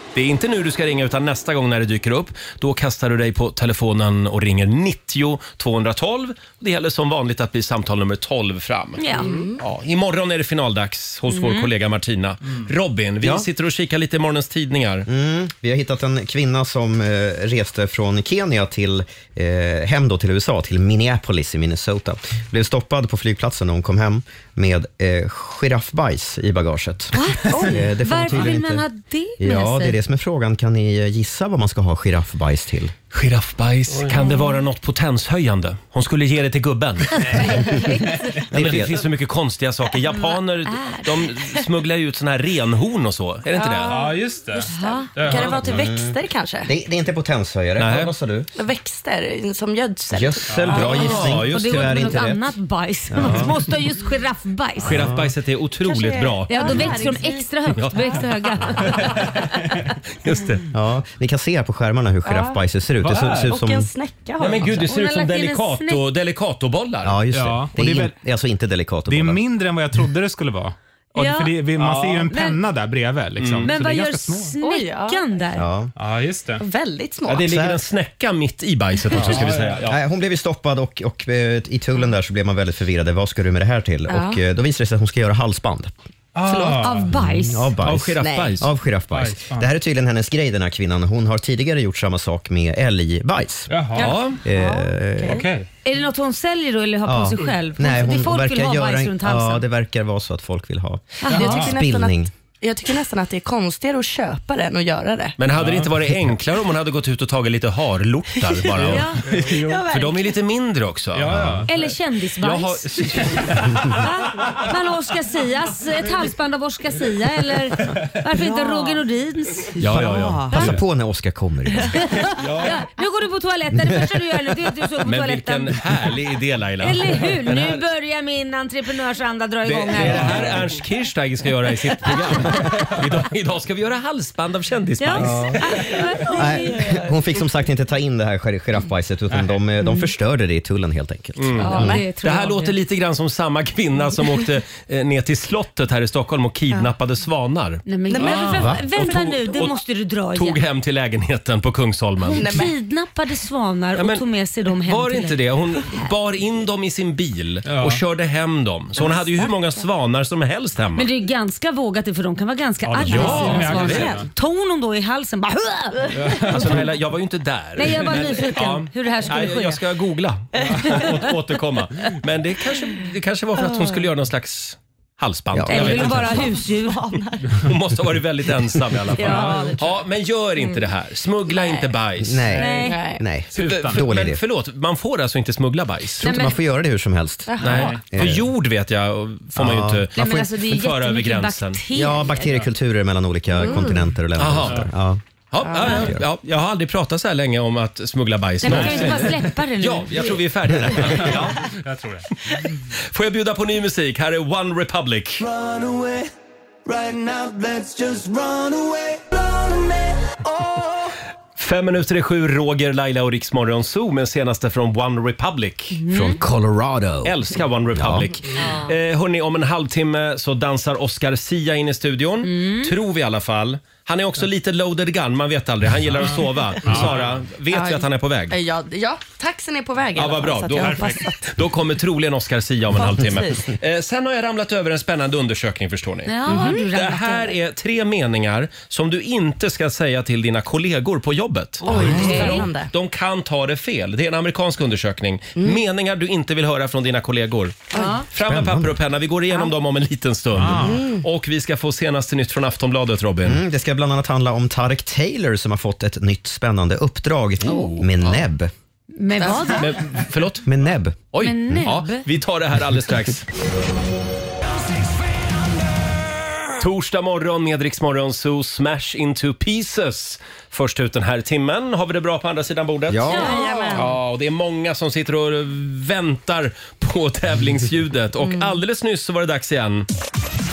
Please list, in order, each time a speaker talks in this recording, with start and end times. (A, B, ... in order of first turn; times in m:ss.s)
0:00.1-0:09.0 A
0:09.0-0:09.3 B
0:09.1-0:09.6 C
0:09.6-0:15.1 A
0:11.3-0:11.7 B
0:15.0-0:28.8 D
0:27.1-0:30.0 B
0:29.4-0:32.9 D
0:33.1-0:37.6 A
0:34.2-0:34.6 B
0:37.2-0:38.4 E
0:37.4-0:38.2 B
0:38.4-0:39.1 D
0:38.5-0:44.1 A
0:40.2-0:41.0 B
0:43.5-0:46.7 C
0:43.8-0:45.5 E
0:44.7-0:45.1 B
0:45.6-0:48.5 D
0:47.8-0:48.1 A
0:48.5-0:51.3 C
0:50.1-0:52.5 D
0:50.5-0:50.8 E
0:50.7-0:52.2 A
0:51.5-0:55.0 B
0:53.1-0:53.5 D
0:54.8-0:57.0 A
0:54.8-0:55.3 D
0:55.8-0:58.2 C
0:56.5-0:59.4 B
0:57.7-0:58.2 A
1:00.2-1:00.6 A
1:00.7-1:03.9 D
1:02.2-1:02.6 C
1:03.0-1:03.5 E
1:03.3-1:04.8 C
1:04.4-1:07.2 A
1:04.8-1:06.0 B
1:07.0-1:09.4 D
1:07.3-1:08.1 E
1:09.1-1:14.5 E
1:11.2-1:11.6 B
1:12.3-1:12.6 B
1:13.4-1:13.7 A
1:13.6-1:15.7 B
1:14.6-1:15.4 C
1:15.5-1:15.9 D
1:16.0-1:16.6 E
1:16.6-1:17.6 C
1:17.3-1:19.9 A
1:17.4-1:17.8 D
1:19.1-1:20.0 E
1:19.9-1:25.9 D
1:24.1-1:24.4 C
1:26.3-1:27.1 E
1:26.4-1:27.0 C
1:26.8-1:27.7 B
1:27.1-1:33.7 D
1:27.8-1:28.7 A
1:28.2-1:28.6 C
1:29.1-1:29.7 E
1:33.7-1:34.1 E
1:33.9-1:35.5 C
1:34.0-1:34.4 A
1:34.4-1:35.4 D
1:35.3-1:35.7 E
1:35.8-1:39.6 B
1:37.0-1:42.3 D
1:41.2-1:41.7 B
1:41.3-1:41.7 E
1:41.3-1:45.4 C
1:45.4-1:51.6 A
1:45.6-1:45.9 E
1:48.8-1:49.8 E
1:48.9-1:49.2 B
1:49.5-1:50.4 C
1:51.1-1:51.7 E
1:51.3-1:51.6 D
1:51.7-1:52.8 B
1:52.4-1:53.6 A
1:53.9-1:59.8 B
1:58.3-1:59.0 C
1:59.8-2:00.8 A
1:59.8-2:00.6 C
1:59.9-2:02.0 D
2:02.0-2:05.8 B
2:03.8-2:04.1 D
2:05.0-2:07.8 A
2:06.8-2:10.3 B
2:09.6-2:15.6 A
2:10.2-2:10.4 E
2:15.0-2:17.0 B
2:15.2-2:15.6 D
2:16.2-2:17.2 C
2:16.3-2:22.0 D
2:19.3-2:19.6 E
2:21.4-2:29.8 A
2:21.6-2:22.7 B
2:27.8-2:30.6 B
2:28.1-2:29.7 C
2:28.5-2:28.8 D
2:30.3-2:32.5 A
2:32.3-2:36.1 B
2:32.4-2:32.7 C
2:34.0-2:34.2 A
2:34.8-2:41.1 A
2:37.6-2:38.0 E
2:41.0-2:46.4 B
2:42.8-2:44.3 E
2:43.1-2:44.1 A
2:43.1-2:44.2 C
2:46.1-2:46.9 E
2:46.4-2:56.6 A
2:47.8-2:49.8 B
2:50.5-2:50.9 C
2:53.6-2:54.0 C
2:55.5-2:56.1 D
2:55.7-2:57.0 B
2:55.8-2:57.6 C
2:57.6-3:02.5 A
2:59.1-2:59.9 C
2:59.2-2:59.6 B
2:59.2-2:59.8 E
3:01.5-3:01.9 B
3:02.2-3:04.4 D
3:02.5-3:03.0 B
3:02.6-3:03.2 C
3:03.5-3:04.1 E
3:03.5-3:06.2 A
3:06.2-3:08.5 D
3:06.2-3:06.6 B
3:07.5-3:08.0 C
3:07.6-3:11.8 A
3:07.7-3:08.0 E
3:09.6-3:10.1 D
3:10.2-3:12.6 B
3:11.9-3:15.2 D
3:13.6-3:14.0 C
3:14.4-3:14.9 A
3:14.6-3:14.9 E
3:15.5-3:21.7 A
3:15.6-3:16.0 C
3:15.8-3:16.2 D
3:18.6-3:20.1 B
3:18.6-3:19.5 E
3:21.0-3:22.3 E
3:23.1-3:25.4 A
3:25.4-3:26.3 F
3:26.8-3:30.4 F
3:31.6-3:36.0 A
3:36.0-3:36.4 B
3:36.1-3:38.3 D
3:37.2-3:48.6 A
3:38.6-3:38.8 C
3:42.4-3:42.9 B
3:46.8-3:47.3 E
3:47.7-3:51.4 C
3:50.1-4:13.6 A
3:50.8-3:51.2 E
3:53.0-3:53.6 C
3:56.2-3:57.6 B
3:56.5-3:56.9 C
4:01.8-4:02.9 C
4:01.9-4:02.2 D
4:01.9-4:02.7 B
4:07.9-4:08.2 C
4:07.9-4:08.2 B
4:08.5-4:09.0 D
4:10.6-4:11.0 E
4:10.8-4:11.2 C
4:13.4-4:18.7 D
4:17.6-4:18.4 A
4:19.2-4:19.9 B
4:19.4-4:19.7 C
4:19.7-4:20.7 A
4:20.6-4:21.2 D
4:21.3-4:23.5 A
4:21.4-4:22.2 B
4:26.8-4:40.1 A
4:33.1-4:33.5 D
4:33.3-4:34.1 C
4:33.3-4:34.0 B
4:38.4-4:38.8 C